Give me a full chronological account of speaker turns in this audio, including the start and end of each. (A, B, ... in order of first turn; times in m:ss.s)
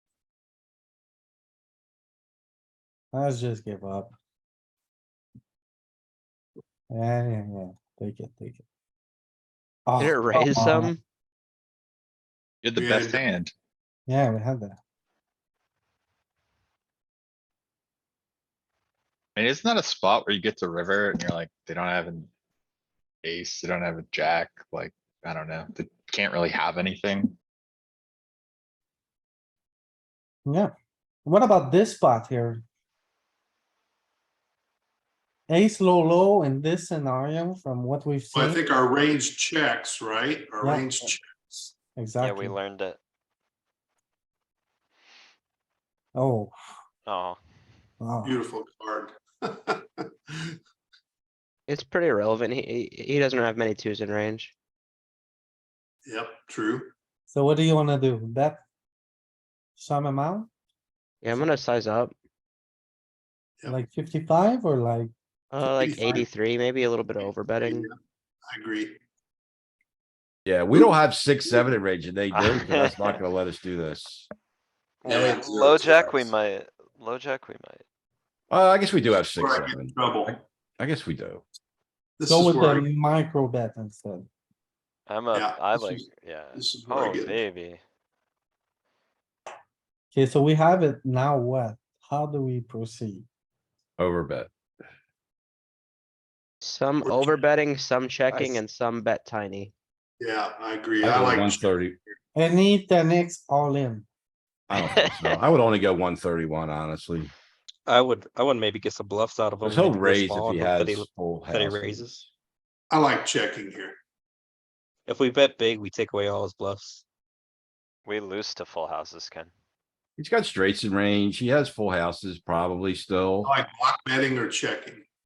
0:03.1-0:04.1 A
0:06.9-0:08.6 A
0:09.9-0:10.9 A
0:10.0-0:11.0 B
0:12.6-0:13.5 C
0:12.7-0:13.2 D
0:14.1-0:14.8 A
0:19.4-0:22.3 C
0:23.2-0:27.3 C
0:30.4-0:30.7 A
0:31.2-0:32.6 A
0:35.5-0:38.6 A
0:38.3-0:41.7 D
0:40.6-0:41.1 A
0:41.9-0:42.6 A
0:42.2-0:43.0 E
0:46.2-0:46.5 A
0:47.0-0:47.4 E
0:48.0-0:48.4 A
0:48.2-0:50.6 D
0:51.7-0:54.5 B
0:56.0-0:56.9 D
0:57.3-0:58.6 A
0:59.8-1:00.5 A
1:01.2-1:02.1 B
1:03.6-1:05.1 A
1:05.5-1:07.9 B
1:05.6-1:06.3 D
1:07.6-1:07.9 D
1:08.5-1:09.0 D
1:10.4-1:14.3 F
1:12.3-1:13.2 E
1:15.0-1:17.8 E
1:15.0-1:16.3 D
1:18.5-1:21.4 F
1:19.4-1:20.4 D
1:22.2-1:22.9 D
1:22.3-1:24.3 A
1:25.1-1:27.8 E
1:25.3-1:27.4 D
1:30.1-1:33.2 A
1:34.0-1:34.5 F
1:36.6-1:39.7 B
1:37.0-1:37.4 D
1:40.2-1:41.7 D
1:41.0-1:42.0 F
1:42.4-1:44.0 A
1:44.7-1:47.3 F
1:44.8-1:45.4 E
1:47.8-1:52.3 G
1:49.6-1:52.0 F
1:52.9-1:54.0 D
1:55.0-1:57.0 G
1:58.0-1:59.5 E
2:00.2-2:03.5 F
2:03.4-2:05.0 D